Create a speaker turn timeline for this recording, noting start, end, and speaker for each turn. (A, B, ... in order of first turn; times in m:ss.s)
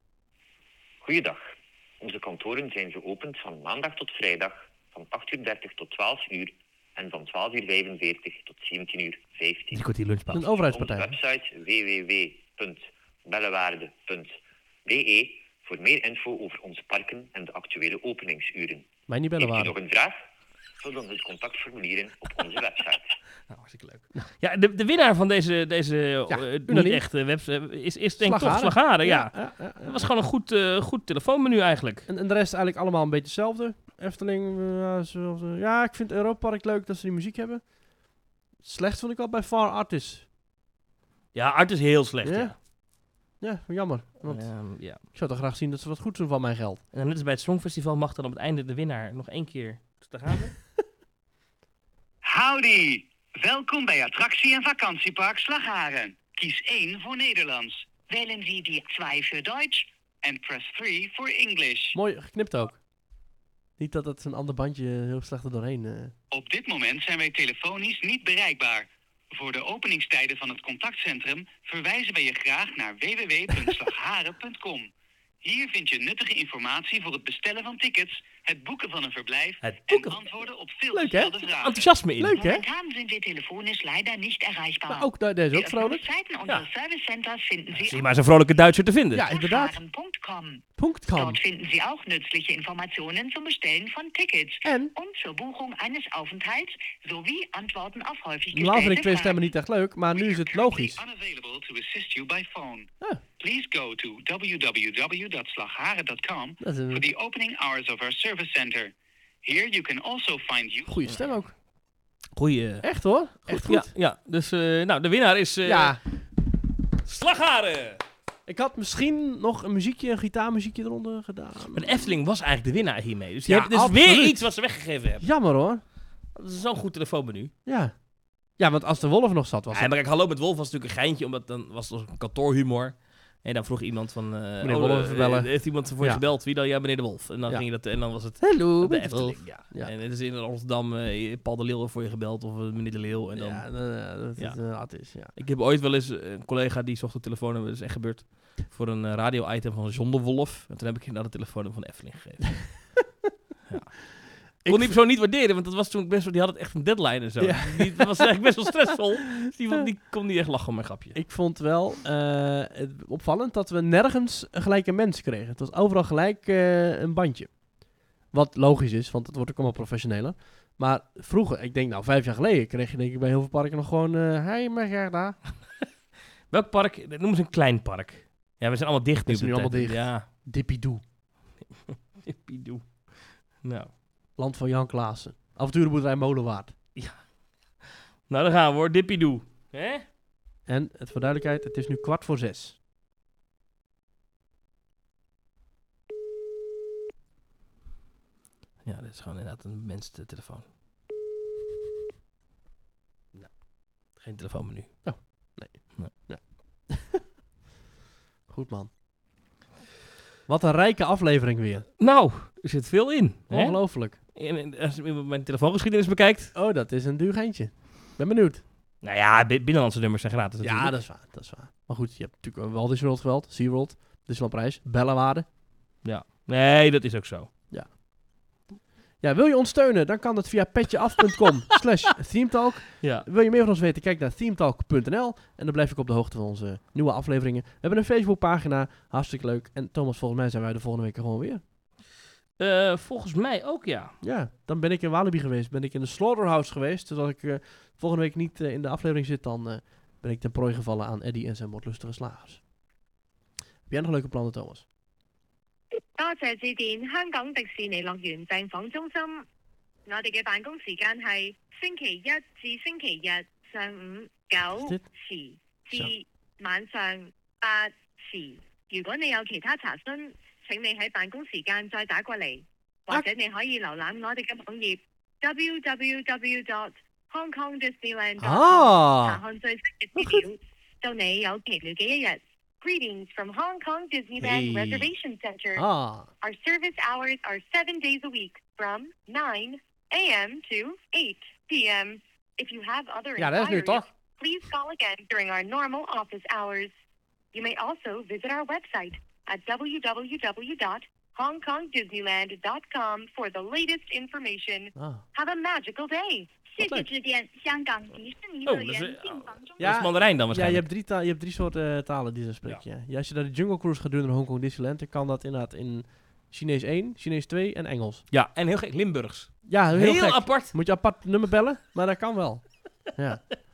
0:01.0-0:09.8 A
0:09.7-0:10.5 B
0:10.3-0:11.2 C
0:10.5-0:20.2 A
0:19.1-0:19.7 C
0:20.8-0:23.2 A
0:23.5-0:32.1 B
0:26.3-0:27.0 C
0:28.2-0:30.1 C
0:32.0-0:38.0 C
0:38.6-0:40.2 C
0:41.3-0:42.5 B
0:42.2-0:42.7 C
0:43.3-0:46.8 C
0:44.2-0:45.0 B
0:46.9-0:50.6 B
0:52.3-0:52.8 D
0:53.4-0:57.6 D
0:58.8-0:59.2 D
1:00.3-1:01.9 D
1:01.9-1:02.8 C
1:03.8-1:06.1 C
1:06.4-1:08.8 D
1:09.4-1:14.8 D
1:15.4-1:19.5 D
1:19.6-1:20.2 B
1:20.0-1:21.1 D
1:20.9-1:21.4 C
1:21.5-1:22.4 B
1:22.2-1:22.6 C
1:23.0-1:24.8 E
1:24.8-1:26.0 C
1:26.8-1:27.1 E
1:27.8-1:29.3 B
1:29.1-1:29.8 C
1:30.8-1:31.4 C
1:34.6-1:34.9 C
1:38.5-1:41.0 C
1:40.6-1:42.8 D
1:43.4-1:48.9 D
1:46.6-1:47.0 C
1:49.4-1:50.8 D
1:50.9-1:51.5 C
1:51.0-1:51.5 B
1:52.3-1:56.2 B
1:52.8-1:53.9 C
1:55.6-1:56.0 C
1:57.0-1:58.0 B
1:58.4-2:02.1 C
2:01.7-2:05.3 B
2:03.4-2:05.8 C
2:06.3-2:07.5 B
2:07.6-2:09.9 C
2:09.7-2:32.8 B
2:14.6-2:16.2 C
2:17.4-2:19.9 C
2:23.3-2:25.3 C
2:33.7-2:41.2 B
2:34.6-2:35.0 C
2:37.4-2:38.3 C
2:41.1-2:47.8 C
2:48.3-2:55.4 C
2:56.5-3:00.3 B
2:59.3-3:01.0 C
3:01.9-3:03.9 B
3:04.4-3:06.7 C
3:06.9-3:07.3 B
3:08.3-3:10.0 B
3:10.6-3:12.8 C
3:18.8-3:20.7 B
3:24.1-3:26.1 B
3:25.0-3:27.2 C
3:28.5-3:28.9 C
3:30.5-3:31.8 C
3:32.0-3:36.5 B
3:33.5-3:34.2 C
3:36.5-3:38.6 C
3:39.0-3:41.0 B
3:40.6-3:45.5 C
3:46.0-3:47.5 B
3:47.7-3:48.0 C
3:49.2-4:01.6 C
3:53.0-3:53.2 B
4:02.6-4:04.2 B
4:04.2-4:12.6 C
4:13.9-4:14.8 C
4:16.2-4:19.4 F
4:20.0-4:45.9 F
4:24.7-4:25.0 C
4:38.4-4:39.4 C
4:40.2-4:40.4 C
4:44.4-4:45.1 C
4:45.7-4:46.3 C
4:46.4-4:56.9 F
4:53.4-4:54.1 C
4:57.5-5:06.7 F
5:05.0-5:05.2 C
5:06.8-5:10.1 G
5:06.8-5:07.1 C
5:08.6-5:10.9 B
5:09.8-5:18.2 C
5:18.3-5:20.7 B
5:19.6-5:23.4 C